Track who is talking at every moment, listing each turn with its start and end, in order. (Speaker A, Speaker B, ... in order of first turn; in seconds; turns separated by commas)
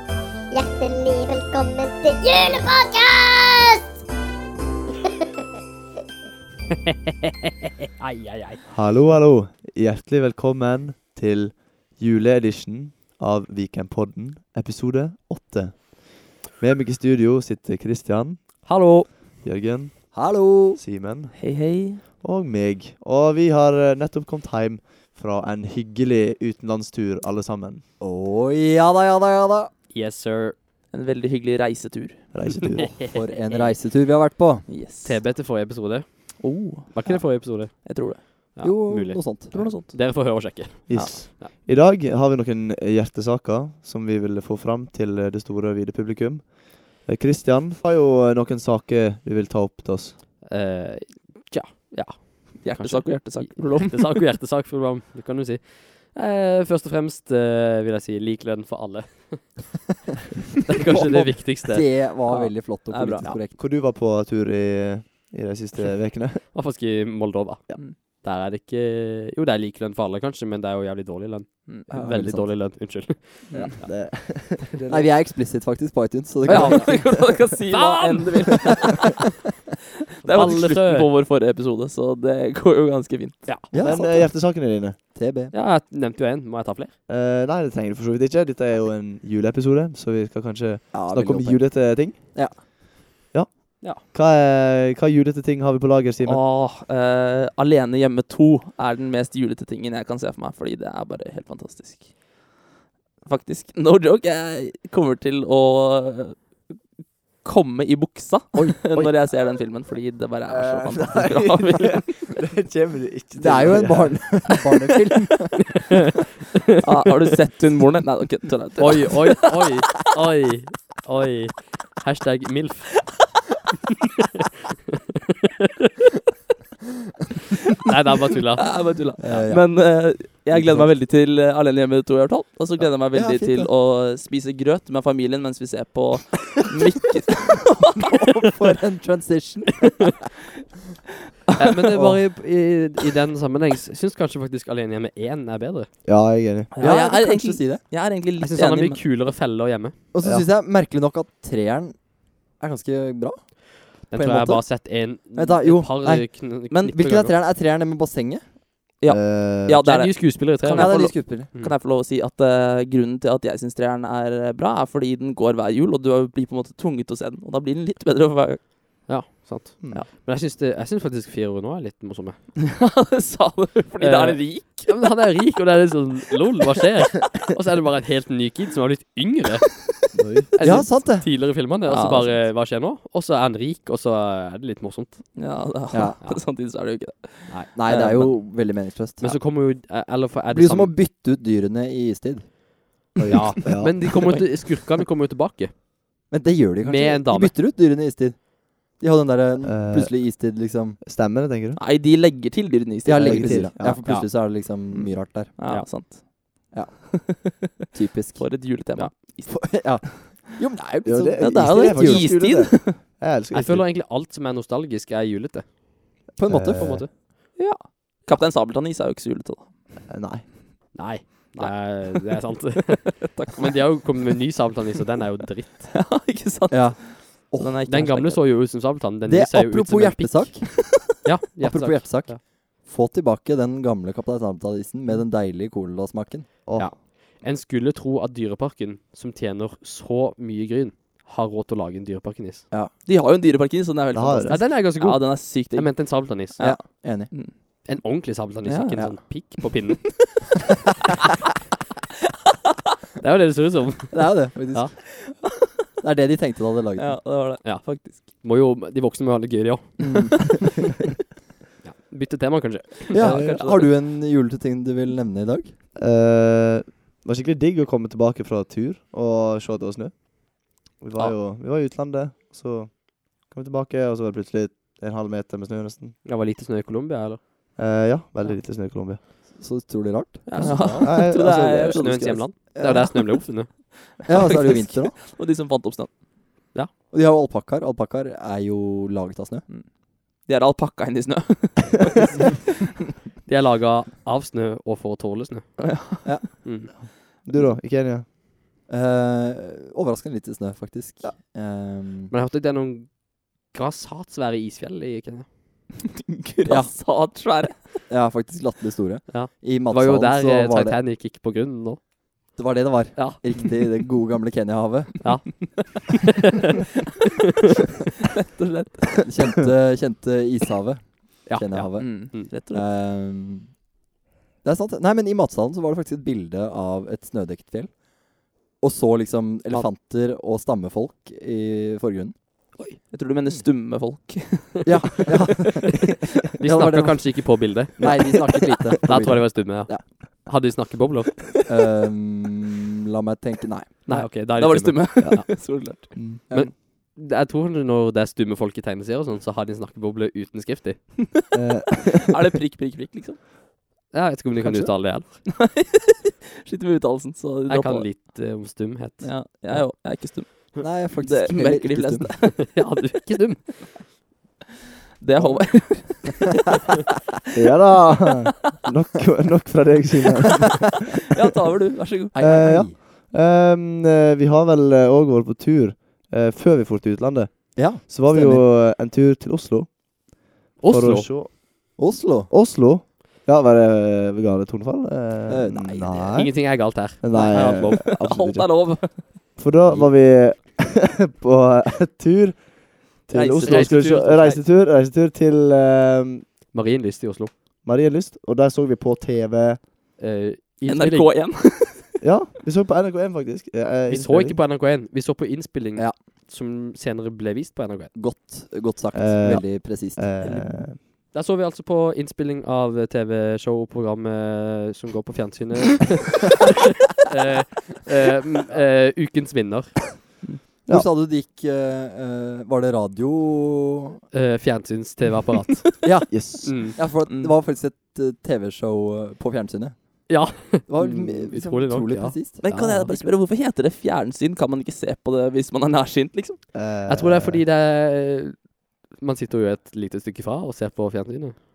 Speaker A: 0.5-4.0, Speaker A: 4.9-5.4, Speaker B: 8.0-8.6, Speaker C: 8.7-18.8, Speaker B: 18.6-19.1, Speaker C: 19.4-21.4, Speaker D: 20.1-20.8, Speaker E: 21.3-22.0, Speaker C: 22.2-27.8, Speaker D: 28.0-29.7, Speaker B: 29.9-30.6, Speaker E: 30.9-32.6, Speaker C: 32.3-33.1, Speaker D: 33.0-34.7, Speaker E: 34.7-35.2, Speaker B: 35.0-41.5, Speaker E: 36.4-38.2, Speaker D: 38.6-39.6, Speaker E: 39.5-41.1, Speaker C: 40.9-50.2, Speaker B: 50.5-59.8, Speaker E: 52.6-54.2, Speaker B: 60.6-62.0, Speaker D: 60.8-63.6, Speaker E: 62.3-63.3, Speaker C: 63.5-66.6, Speaker B: 66.5-73.9, Speaker E: 71.7-71.9, Speaker D: 71.9-73.8, Speaker E: 73.5-73.8, Speaker C: 73.8-75.1, Speaker D: 74.9-77.2, Speaker B: 76.5-77.1, Speaker E: 76.5-79.2, Speaker B: 77.7-79.0, Speaker E: 80.2-83.5, Speaker B: 80.2-81.1, Speaker B: 83.5-83.7, Speaker D: 83.7-84.4, Speaker C: 83.7-85.0, Speaker D: 85.1-85.5, Speaker B: 85.5-86.9, Speaker C: 87.1-92.7, Speaker D: 90.9-92.6, Speaker C: 93.3-96.4, Speaker E: 96.2-102.1, Speaker E: 103.2-106.7, Speaker E: 107.4-112.3, Speaker C: 108.7-109.1, Speaker C: 110.5-115.0, Speaker D: 113.4-115.8, Speaker E: 116.8-119.6, Speaker B: 118.8-123.1, Speaker B: 127.8-128.7, Speaker E: 128.6-138.1, Speaker D: 129.2-130.9, Speaker D: 132.8-133.7, Speaker D: 137.9-140.1, Speaker B: 141.6-145.9, Speaker D: 141.9-142.2, Speaker C: 146.0-146.7, Speaker E: 146.7-149.0, Speaker D: 146.8-147.8, Speaker B: 148.4-149.9, Speaker D: 150.1-158.5, Speaker C: 150.2-150.5, Speaker B: 154.0-157.3, Speaker E: 156.7-157.0, Speaker E: 159.0-168.6, Speaker C: 159.1-159.8, Speaker B: 159.8-161.8, Speaker D: 160.7-161.5, Speaker B: 169.1-172.4, Speaker E: 172.6-175.1, Speaker B: 174.0-185.2, Speaker D: 180.6-181.3, Speaker E: 181.8-182.4, Speaker E: 185.3-187.6, Speaker D: 185.9-186.2, Speaker B: 187.5-191.0, Speaker D: 187.7-189.4, Speaker D: 190.5-192.5, Speaker C: 193.2-194.2, Speaker B: 193.3-195.7, Speaker D: 196.3-201.0, Speaker B: 196.8-197.5, Speaker C: 199.6-200.4, Speaker C: 201.0-201.8, Speaker E: 201.7-203.6, Speaker D: 203.0-205.5, Speaker C: 203.1-204.0, Speaker E: 204.9-207.5, Speaker D: 206.7-207.2, Speaker D: 207.9-208.5, Speaker E: 208.3-210.4, Speaker D: 209.4-212.3, Speaker C: 211.0-213.9, Speaker E: 211.4-213.0, Speaker B: 213.5-215.7, Speaker B: 216.3-217.1, Speaker D: 216.3-217.0, Speaker C: 216.4-217.1, Speaker E: 217.6-219.7, Speaker C: 220.1-220.5, Speaker B: 220.9-225.9, Speaker E: 221.3-224.2, Speaker E: 225.9-228.4, Speaker D: 226.7-227.8, Speaker B: 227.8-230.7, Speaker D: 229.2-230.8, Speaker B: 231.2-232.4, Speaker D: 231.6-236.5, Speaker C: 236.6-236.9, Speaker B: 236.8-242.7, Speaker E: 243.0-247.5, Speaker C: 244.1-244.7, Speaker B: 244.5-247.1, Speaker D: 246.6-247.3, Speaker B: 247.8-250.4, Speaker E: 248.6-250.0, Speaker B: 253.2-254.9, Speaker D: 254.1-255.4, Speaker D: 256.0-257.2, Speaker E: 257.0-258.3, Speaker B: 257.6-260.4, Speaker D: 260.0-260.6, Speaker B: 261.8-263.2, Speaker D: 263.1-265.8, Speaker E: 263.1-263.9, Speaker C: 263.2-263.5, Speaker C: 265.9-276.2, Speaker B: 276.2-277.4, Speaker C: 277.8-279.2, Speaker D: 279.5-281.1, Speaker E: 280.4-282.5, Speaker C: 280.5-282.4, Speaker B: 280.6-283.7, Speaker D: 282.8-283.4, Speaker E: 283.7-286.2, Speaker D: 284.2-285.2, Speaker D: 287.1-289.6, Speaker E: 289.7-292.6, Speaker B: 293.4-295.8, Speaker E: 295.9-296.5, Speaker B: 296.6-296.9, Speaker C: 297.0-298.2, Speaker D: 298.9-302.3, Speaker B: 302.3-305.5, Speaker E: 306.1-307.9, Speaker D: 306.6-307.4, Speaker D: 308.1-311.0, Speaker B: 309.3-312.0, Speaker D: 312.6-315.2, Speaker B: 313.1-313.6, Speaker B: 315.2-316.3, Speaker E: 318.3-319.2, Speaker D: 319.2-323.8, Speaker B: 321.4-322.5, Speaker E: 322.0-322.8, Speaker D: 324.6-328.1, Speaker D: 328.8-332.3, Speaker E: 332.9-335.1, Speaker D: 334.8-340.0, Speaker B: 336.6-341.5, Speaker D: 341.6-344.3, Speaker B: 344.1-345.5, Speaker E: 344.1-346.5, Speaker C: 345.2-346.4, Speaker B: 346.5-351.0, Speaker C: 351.5-352.3, Speaker E: 352.3-353.4, Speaker B: 354.1-355.4, Speaker E: 354.6-358.3, Speaker B: 357.7-359.9, Speaker E: 359.2-363.5, Speaker D: 360.8-362.4, Speaker B: 362.6-363.7, Speaker E: 365.2-366.7, Speaker D: 365.5-366.4, Speaker C: 367.5-371.1, Speaker E: 371.3-372.3, Speaker D: 372.3-373.0, Speaker C: 372.4-381.6, Speaker D: 377.8-378.6, Speaker B: 380.8-381.3, Speaker D: 382.0-382.5, Speaker C: 382.5-396.5, Speaker D: 385.5-386.4, Speaker B: 386.3-388.0, Speaker E: 387.3-389.9, Speaker E: 393.3-394.0, Speaker B: 393.6-394.6, Speaker B: 396.7-397.5, Speaker C: 397.8-399.8, Speaker B: 400.2-401.3, Speaker E: 400.9-402.1, Speaker C: 402.2-404.6, Speaker B: 404.1-408.1, Speaker D: 408.1-410.7, Speaker C: 409.1-411.0, Speaker B: 411.3-420.1, Speaker D: 420.9-424.2, Speaker B: 424.3-426.9, Speaker D: 426.0-432.9, Speaker C: 426.3-426.8, Speaker E: 427.3-427.5, Speaker B: 430.3-432.4, Speaker E: 432.6-436.6, Speaker C: 432.7-433.1, Speaker C: 436.7-437.6, Speaker B: 437.1-441.6